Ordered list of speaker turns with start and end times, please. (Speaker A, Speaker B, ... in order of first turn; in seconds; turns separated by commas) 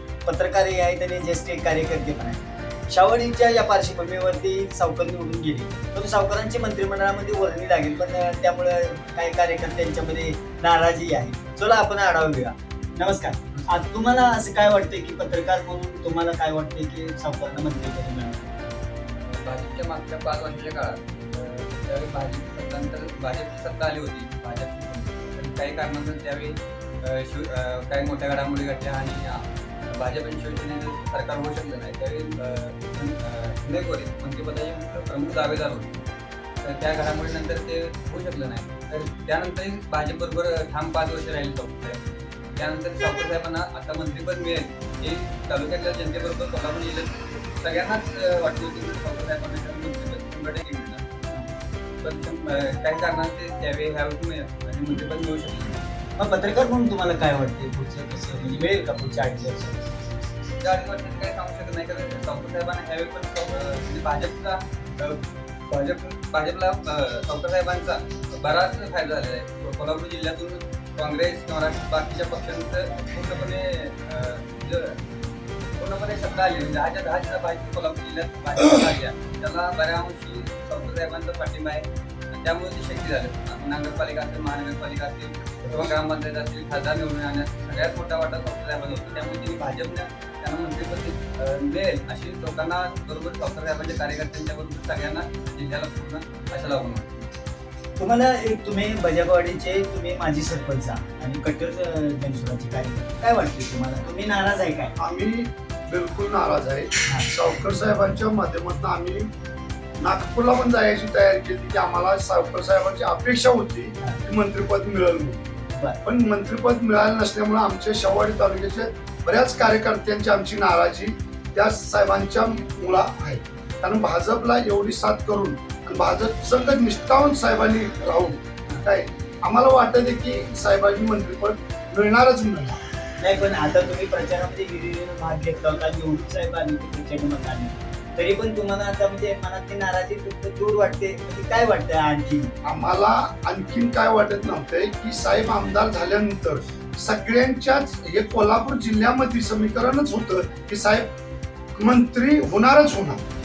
Speaker A: 0.3-18.8, Speaker B: 19.2-36.0, Speaker B: 36.6-42.0, Speaker B: 42.6-51.0, Speaker B: 52.0-55.8, Speaker A: 56.2-59.8, Speaker B: 60.6-75.0, Speaker B: 75.8-97.3, Speaker A: 98.0-105.0, Speaker C: 105.0-109.3, Speaker C: 110.0-115.4, Speaker A: 115.7-116.0, Speaker C: 116.0-132.8, Speaker A: 133.2-142.5, Speaker C: 142.7-151.1, Speaker C: 151.8-153.2